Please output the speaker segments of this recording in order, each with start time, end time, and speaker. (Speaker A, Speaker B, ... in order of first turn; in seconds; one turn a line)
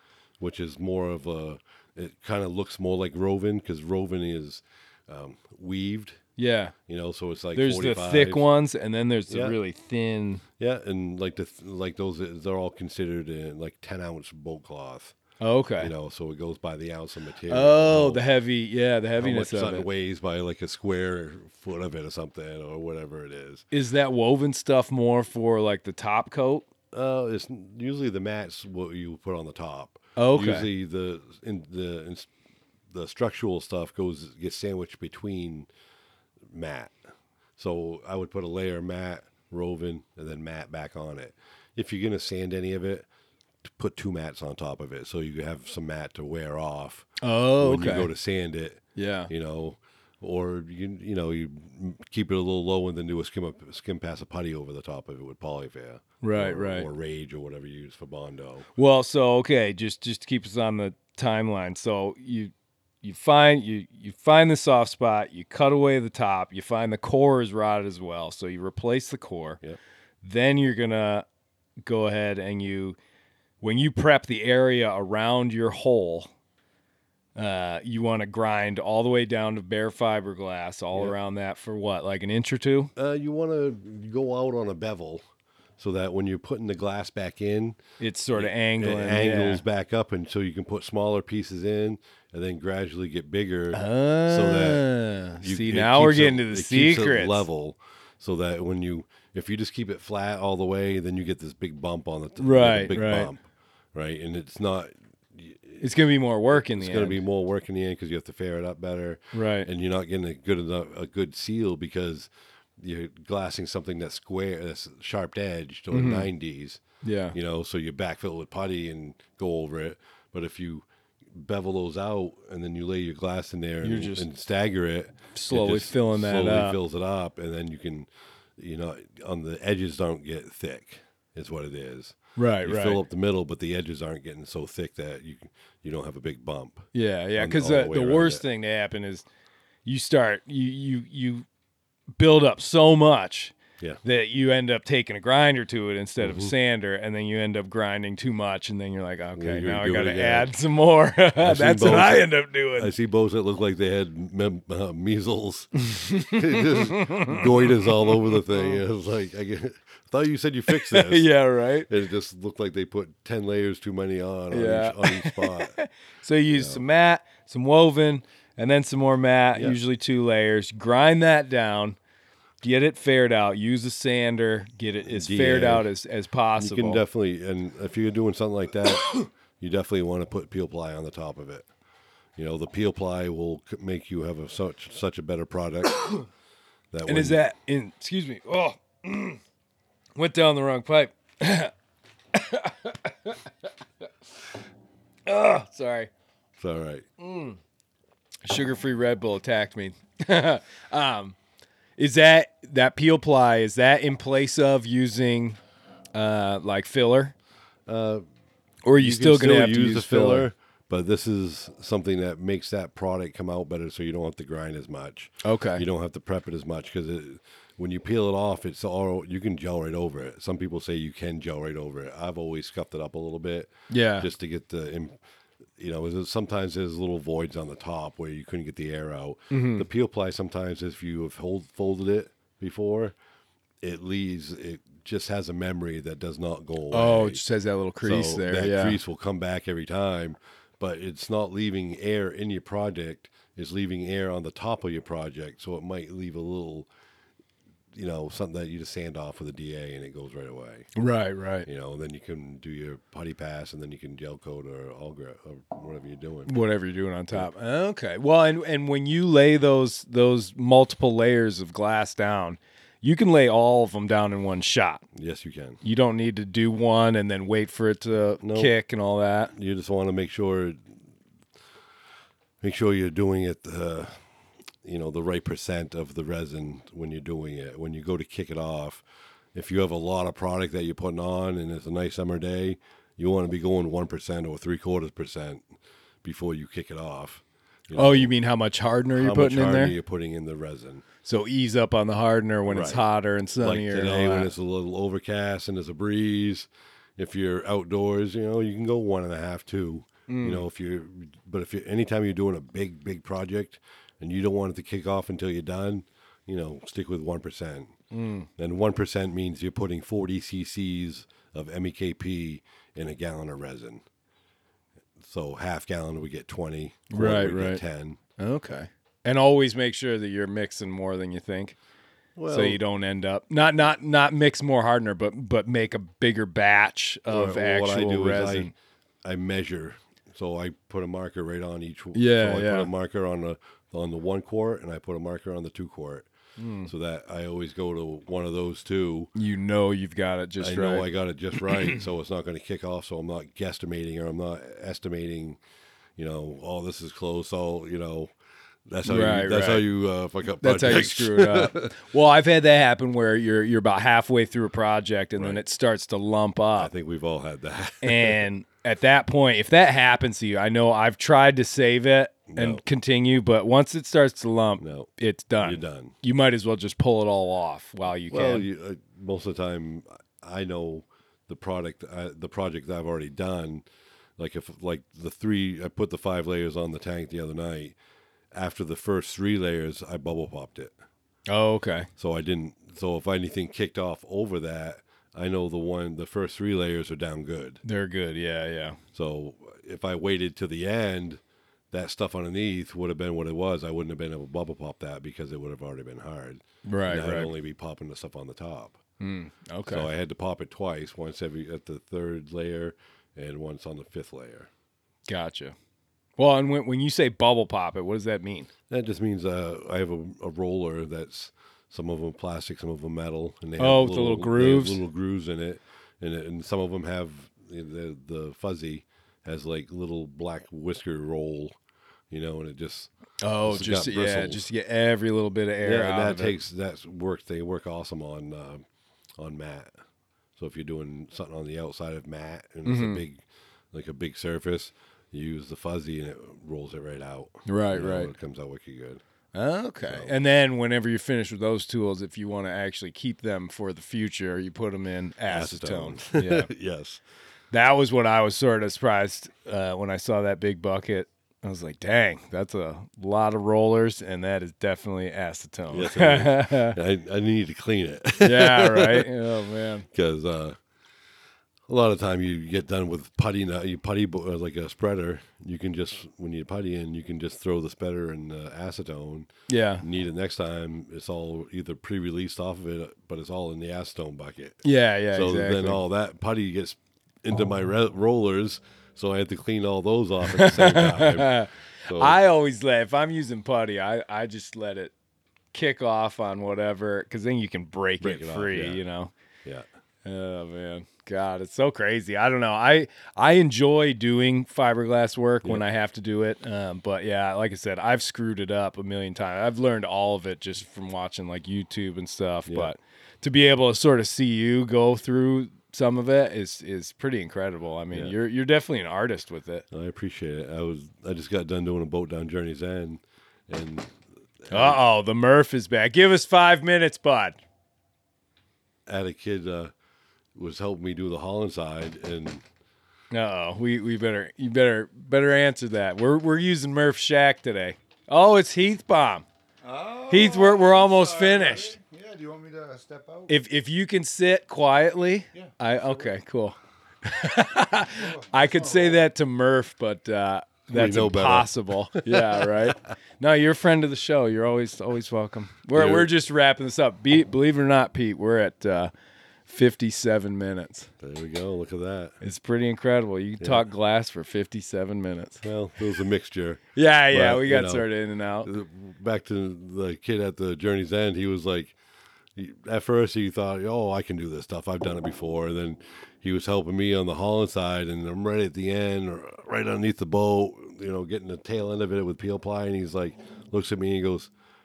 Speaker A: 0.4-6.2
Speaker B: 6.4-6.7
Speaker A: 6.9-8.4
Speaker B: 7.5-10.4
Speaker A: 9.3-9.6
Speaker A: 10.6-15.1
Speaker B: 15.4-15.9
Speaker A: 15.8-18.2
Speaker B: 17.5-19.9
Speaker A: 19.2-23.6
Speaker B: 23.7-26.7
Speaker A: 26.9-32.3
Speaker B: 30.1-30.7
Speaker A: 32.9-35.7
Speaker A: 36.5-37.0
Speaker A: 37.6-43.1
Speaker A: 43.6-58.7
Speaker B: 47.2-48.1
Speaker B: 49.0-49.3
Speaker B: 56.2-56.9
Speaker B: 58.8-62.5
Speaker B: 63.0-69.6
Speaker B: 70.2-71.2
Speaker B: 71.8-73.0
Speaker B: 73.6-76.3
Speaker B: 77.3-82.9
Speaker A: 83.0-85.2
Speaker A: 85.8-87.8
Speaker B: 88.0-89.6
Speaker A: 88.4-94.8
Speaker B: 93.7-97.5
Speaker A: 95.4-105.8
Speaker B: 102.4-103.3
Speaker B: 105.8-107.2
Speaker A: 106.5-116.8
Speaker B: 109.3-109.7
Speaker B: 115.9-116.3
Speaker B: 117.0-117.3
Speaker A: 117.3-138.4
Speaker B: 123.8-124.2
Speaker B: 125.3-126.8
Speaker B: 132.3-133.0
Speaker B: 136.9-139.2
Speaker B: 139.8-141.4
Speaker B: 142.2-152.9
Speaker A: 146.2-146.5
Speaker A: 149.3-150.5
Speaker A: 151.4-161.3
Speaker B: 155.9-158.4
Speaker B: 160.7-161.9
Speaker A: 161.9-165.8
Speaker B: 164.5-172.0
Speaker A: 166.5-166.8
Speaker B: 172.6-177.0
Speaker A: 175.1-175.9
Speaker A: 176.6-181.7
Speaker A: 182.3-186.1
Speaker A: 186.9-187.4
Speaker B: 187.1-189.4
Speaker B: 190.2-191.7
Speaker B: 192.3-193.7
Speaker B: 195.2-196.1
Speaker A: 196.6-197.1
Speaker B: 197.2-197.6
Speaker B: 198.4-201.3
Speaker B: 202.0-205.6
Speaker B: 206.1-207.3
Speaker A: 207.9-208.2
Speaker B: 208.8-210.5
Speaker A: 209.0-225.2
Speaker B: 215.4-215.8
Speaker B: 223.9-224.3
Speaker A: 225.8-233.2
Speaker B: 229.5-229.8
Speaker A: 233.8-237.4
Speaker B: 236.9-239.0
Speaker A: 238.0-246.9
Speaker A: 247.9-250.9
Speaker B: 250.9-251.7
Speaker A: 251.6-256.5
Speaker B: 256.4-265.0
Speaker A: 265.1-265.8
Speaker B: 265.8-269.5
Speaker A: 268.4-268.7
Speaker A: 269.5-270.9
Speaker A: 272.6-274.2
Speaker A: 274.8-285.6
Speaker A: 286.2-288.3
Speaker B: 287.9-289.9
Speaker A: 289.1-291.0
Speaker B: 291.2-294.5
Speaker A: 292.6-293.0
Speaker A: 293.6-307.9
Speaker B: 300.3-300.6
Speaker B: 308.1-308.5
Speaker A: 308.6-314.0
Speaker A: 315.2-318.2
Speaker B: 317.1-317.8
Speaker B: 318.4-321.8
Speaker A: 322.4-322.8
Speaker B: 322.5-328.7
Speaker A: 327.3-328.7
Speaker A: 329.2-336.3
Speaker B: 332.1-332.9
Speaker B: 336.6-336.9
Speaker A: 336.9-339.3
Speaker B: 339.3-341.1
Speaker A: 340.6-345.6
Speaker B: 341.7-342.0
Speaker A: 346.2-348.3
Speaker A: 348.9-351.9
Speaker B: 349.0-349.8
Speaker B: 350.6-356.9
Speaker A: 355.4-355.6
Speaker A: 356.8-358.4
Speaker B: 358.0-368.6
Speaker A: 362.5-362.8
Speaker A: 364.8-365.1
Speaker A: 365.6-366.2
Speaker A: 368.3-373.9
Speaker A: 374.4-377.9
Speaker A: 378.5-380.9
Speaker B: 381.5-382.1
Speaker A: 382.2-387.8
Speaker B: 387.8-389.0
Speaker A: 389.1-399.0
Speaker B: 396.8-397.5
Speaker B: 399.2-400.1
Speaker A: 399.8-404.7
Speaker B: 405.3-405.7
Speaker B: 406.4-408.7
Speaker A: 408.9-421.8
Speaker B: 413.8-415.0
Speaker A: 422.3-423.1
Speaker B: 423.4-426.6
Speaker A: 423.6-424.7
Speaker A: 425.8-428.9
Speaker A: 429.4-429.9
Speaker A: 430.6-439.2
Speaker B: 432.8-433.2
Speaker B: 437.7-438.3
Speaker B: 439.5-446.7
Speaker A: 440.0-440.3
Speaker A: 445.5-447.2
Speaker B: 447.7-457.0
Speaker A: 455.9-459.3
Speaker B: 458.4-460.1
Speaker A: 460.1-460.8
Speaker A: 461.9-469.5
Speaker B: 469.7-470.0
Speaker A: 470.0-482.4
Speaker B: 474.8-476.0
Speaker B: 480.5-485.1
Speaker B: 485.7-489.3
Speaker A: 488.2-489.0
Speaker B: 490.2-509.8
Speaker A: 502.7-502.9
Speaker A: 509.9-515.0
Speaker B: 514.7-517.6
Speaker A: 519.1-519.9
Speaker A: 520.5-522.6
Speaker B: 523.3-529.4
Speaker C: 529.8-533.5
Speaker B: 530.3-532.0
Speaker B: 533.5-549.1
Speaker C: 535.5-536.3
Speaker C: 538.2-539.2
Speaker A: 540.9-542.9
Speaker A: 545.9-546.3
Speaker B: 549.7-551.1
Speaker A: 551.2-552.4
Speaker B: 552.4-555.6
Speaker A: 553.6-553.9
Speaker A: 555.6-558.1
Speaker B: 557.0-558.7
Speaker A: 558.6-562.0
Speaker A: 562.5-574.5